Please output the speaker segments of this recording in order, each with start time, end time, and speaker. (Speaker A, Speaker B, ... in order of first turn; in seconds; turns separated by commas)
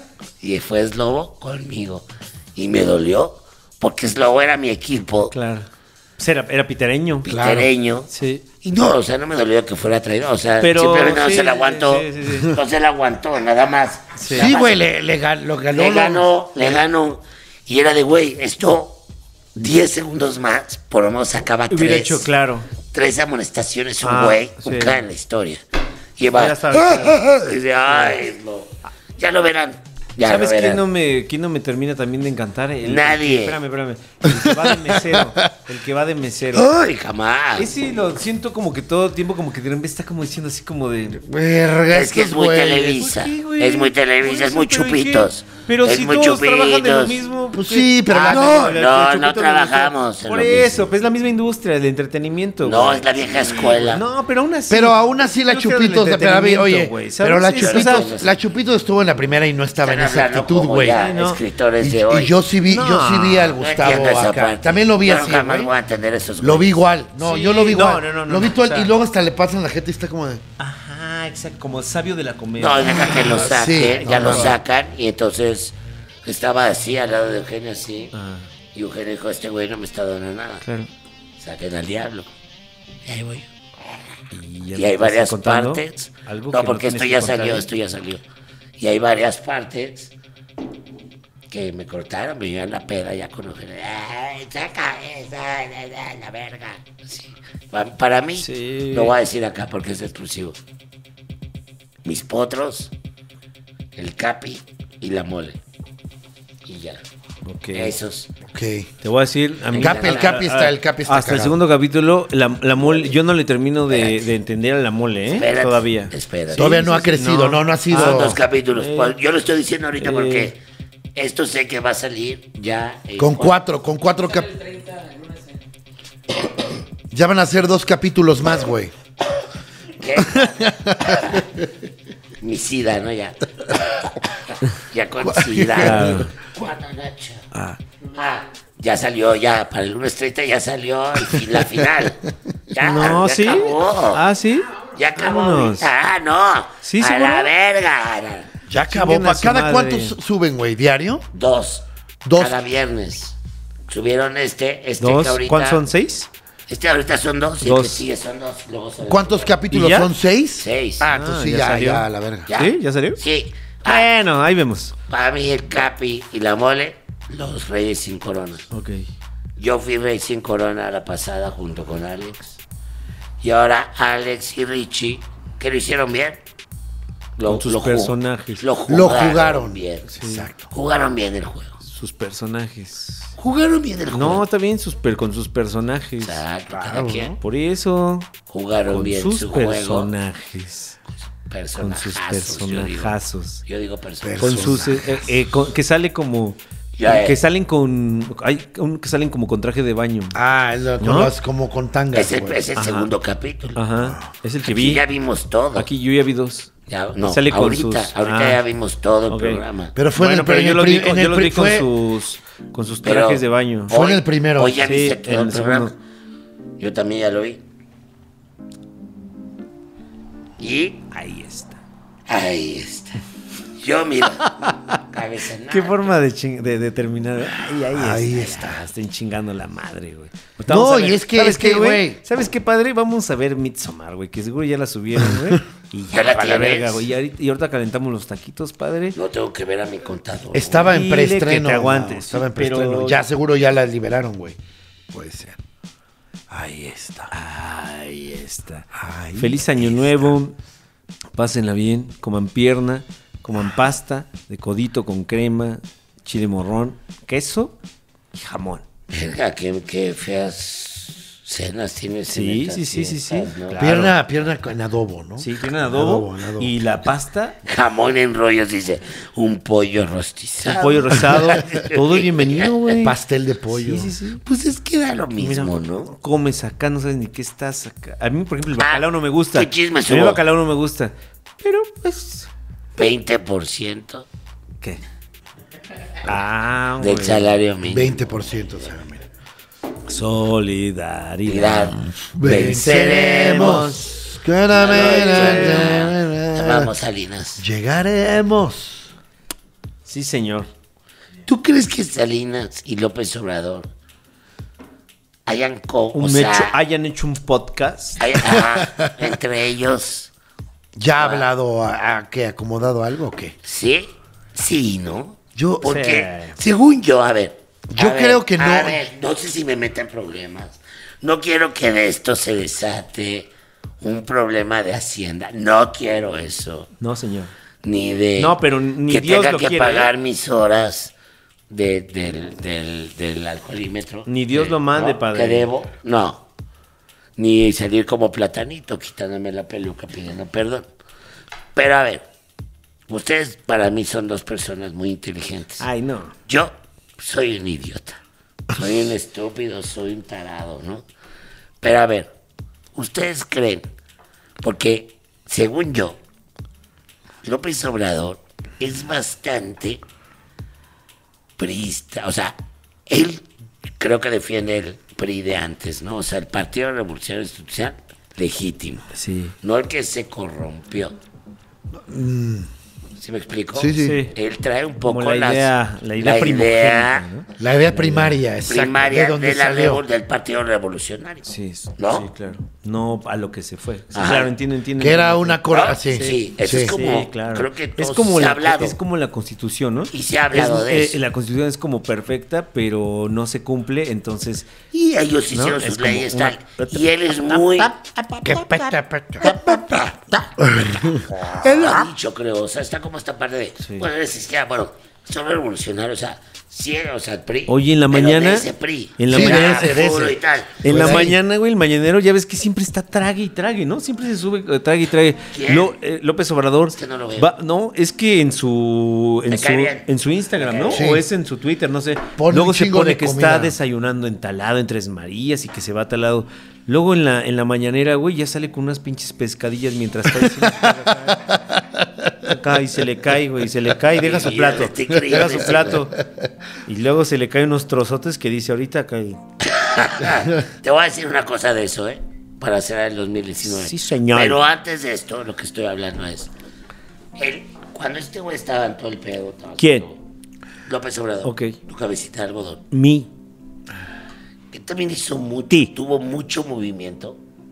Speaker A: 0.4-5.3, Speaker B: 5.3-7.3, Speaker A: 7.2-8.1, Speaker C: 7.2-7.7, Speaker B: 8.1-8.4, Speaker A: 8.6-14.8, Speaker B: 10.6-12.6, Speaker B: 14.2-14.5, Speaker C: 14.3-16.3, Speaker A: 15.7-19.0, Speaker A: 19.6-22.3, Speaker B: 21.7-22.7, Speaker A: 22.9-25.6, Speaker B: 24.0-25.0, Speaker A: 26.2-26.8, Speaker B: 26.3-27.2, Speaker C: 26.7-27.5, Speaker A: 27.3-30.8, Speaker B: 27.9-28.2, Speaker B: 30.2-36.7, Speaker A: 32.8-33.6, Speaker C: 34.2-35.4, Speaker A: 36.5-37.7, Speaker B: 37.6-41.2, Speaker C: 41.1-43.0, Speaker A: 41.9-47.2, Speaker B: 42.9-58.1, Speaker C: 47.5-48.8, Speaker A: 48.3-50.9, Speaker A: 52.6-54.0, Speaker C: 54.7-61.0, Speaker A: 57.6-58.3, Speaker A: 59.8-62.3, Speaker B: 60.9-61.4, Speaker C: 61.8-65.7, Speaker B: 62.7-63.6, Speaker A: 63.6-66.8, Speaker C: 66.4-70.4, Speaker B: 67.2-68.9, Speaker B: 70.6-74.6, Speaker A: 72.6-78.1, Speaker C: 73.3-74.5, Speaker B: 78.1-78.5, Speaker A: 78.7-80.6, Speaker B: 80.6-80.9, Speaker A: 81.4-82.3, Speaker A: 83.0-83.5, Speaker B: 84.3-87.7, Speaker A: 84.8-88.2, Speaker A: 88.8-90.1, Speaker A: 91.5-100.6, Speaker B: 98.4-99.2, Speaker A: 102.0-102.9, Speaker A: 103.9-105.6, Speaker A: 106.7-107.0, Speaker B: 107.4-107.9, Speaker A: 107.7-108.3, Speaker C: 108.5-108.9, Speaker B: 109.0-119.2, Speaker A: 109.7-110.4, Speaker C: 109.7-111.6, Speaker A: 112.8-113.1, Speaker A: 113.9-114.2, Speaker A: 115.3-116.8, Speaker C: 116.5-118.4, Speaker A: 117.9-120.6, Speaker B: 120.0-120.5, Speaker A: 121.1-123.6, Speaker C: 123.2-124.8, Speaker C: 127.1-128.9, Speaker A: 130.0-131.5, Speaker C: 130.2-131.7, Speaker A: 132.4-133.8, Speaker A: 134.4-137.4, Speaker C: 135.2-136.2, Speaker B: 135.8-136.3, Speaker A: 138.1-144.2, Speaker B: 142.8-145.9, Speaker A: 144.9-148.5, Speaker B: 146.8-147.5, Speaker C: 148.7-151.2, Speaker B: 148.9-150.1, Speaker A: 151.3-151.8, Speaker C: 152.2-152.6, Speaker A: 152.4-153.3, Speaker A: 153.9-155.8, Speaker B: 155.0-156.3, Speaker A: 156.7-159.6, Speaker B: 157.6-158.0, Speaker C: 159.1-162.5, Speaker B: 159.7-160.1, Speaker A: 160.6-161.1, Speaker B: 161.1-163.2, Speaker A: 162.5-164.1, Speaker B: 163.8-164.9, Speaker A: 165.1-168.7, Speaker B: 168.7-169.1, Speaker A: 169.6-172.6, Speaker A: 173.4-176.4, Speaker A: 177.3-180.1, Speaker B: 177.4-178.6, Speaker C: 178.9-180.7, Speaker B: 180.1-180.5, Speaker A: 180.7-181.8, Speaker B: 181.8-183.3, Speaker A: 183.4-184.4, Speaker B: 184.1-186.4, Speaker A: 186.2-187.4, Speaker C: 186.7-187.3, Speaker B: 186.9-188.3, Speaker A: 188.5-190.1, Speaker B: 188.9-191.0, Speaker A: 191.5-193.1, Speaker B: 191.8-193.6, Speaker A: 193.7-194.8, Speaker C: 194.2-195.3, Speaker B: 194.4-200.4, Speaker A: 196.9-197.4, Speaker C: 200.3-202.6, Speaker B: 201.0-201.3, Speaker A: 202.1-203.8, Speaker B: 202.8-203.1, Speaker B: 203.8-205.0, Speaker A: 204.6-205.9, Speaker B: 205.8-208.6, Speaker A: 206.9-209.9, Speaker B: 209.3-209.6, Speaker C: 209.9-211.9, Speaker B: 210.1-213.9, Speaker A: 213.0-215.9, Speaker C: 213.9-214.8, Speaker B: 214.8-215.9, Speaker A: 216.8-217.6, Speaker A: 220.6-221.0, Speaker B: 221.1-221.8, Speaker A: 222.3-223.2, Speaker A: 223.7-226.1, Speaker B: 224.4-225.0, Speaker B: 225.7-239.2, Speaker C: 227.9-228.8, Speaker C: 230.7-232.2, Speaker C: 235.2-235.6, Speaker A: 236.1-237.1, Speaker A: 239.1-240.9, Speaker C: 240.5-244.6, Speaker B: 240.8-243.2, Speaker C: 245.1-245.6, Speaker C: 246.5-247.3, Speaker B: 247.3-250.5, Speaker C: 248.9-249.9, Speaker B: 251.3-257.7, Speaker B: 258.3-258.8, Speaker A: 259.1-263.9, Speaker B: 262.3-264.1, Speaker C: 263.8-266.7, Speaker B: 265.4-267.6, Speaker A: 267.6-272.7, Speaker B: 270.7-273.2, Speaker C: 273.0-274.1, Speaker B: 273.7-274.4, Speaker A: 274.4-276.1, Speaker B: 275.4-282.5, Speaker A: 278.8-280.4, Speaker A: 282.9-284.3, Speaker B: 286.2-287.5, Speaker A: 287.0-288.3, Speaker C: 287.9-289.2, Speaker B: 290.1-294.1, Speaker A: 291.4-293.9, Speaker C: 292.3-296.9, Speaker A: 294.7-297.6, Speaker B: 294.9-296.1, Speaker C: 297.6-299.1, Speaker B: 300.1-300.7, Speaker A: 301.4-303.9, Speaker A: 305.4-306.8, Speaker B: 306.1-308.2, Speaker A: 308.2-310.3, Speaker C: 308.4-309.3, Speaker C: 310.9-313.5, Speaker A: 311.2-311.4, Speaker A: 313.6-326.9, Speaker C: 315.6-315.9, Speaker B: 315.8-316.6, Speaker C: 317.9-319.0, Speaker B: 327.0-327.5, Speaker A: 327.8-331.1, Speaker B: 328.4-330.1, Speaker A: 331.7-336.4, Speaker B: 334.3-335.7, Speaker A: 337.4-340.9, Speaker A: 341.7-342.2, Speaker A: 343.1-345.9, Speaker B: 345.8-346.3, Speaker A: 346.5-348.2, Speaker A: 348.7-351.0, Speaker A: 351.8-352.3, Speaker A: 352.9-353.9, Speaker A: 354.6-356.2, Speaker A: 357.4-360.0, Speaker A: 361.6-363.4, Speaker A: 364.0-369.1, Speaker B: 369.1-369.5, Speaker A: 369.6-371.1, Speaker C: 371.9-372.7, Speaker A: 373.2-377.2, Speaker C: 373.7-374.2, Speaker B: 374.0-374.3, Speaker B: 375.0-378.4, Speaker C: 377.6-380.0, Speaker A: 378.7-382.3, Speaker B: 381.4-394.7, Speaker A: 384.1-384.5, Speaker C: 385.0-386.9, Speaker A: 385.7-389.0, Speaker A: 390.1-391.2, Speaker A: 394.9-398.0, Speaker B: 395.5-398.9, Speaker C: 398.4-402.1, Speaker A: 399.4-400.1, Speaker A: 401.0-411.2, Speaker B: 403.8-404.1, Speaker B: 407.7-410.1, Speaker C: 409.3-411.4, Speaker B: 410.8-431.4, Speaker A: 415.5-415.9, Speaker A: 416.9-417.5, Speaker A: 419.5-420.1, Speaker A: 420.6-421.0, Speaker C: 420.9-421.2, Speaker C: 422.4-423.7, Speaker C: 430.4-432.5, Speaker B: 432.4-436.2, Speaker A: 434.2-436.0, Speaker C: 435.3-436.5, Speaker B: 436.8-439.4, Speaker A: 439.6-446.5, Speaker B: 443.6-444.6, Speaker A: 447.4-450.2, Speaker B: 449.8-450.1, Speaker A: 450.9-452.8, Speaker B: 451.4-451.7, Speaker B: 452.9-453.3, Speaker A: 454.7-457.4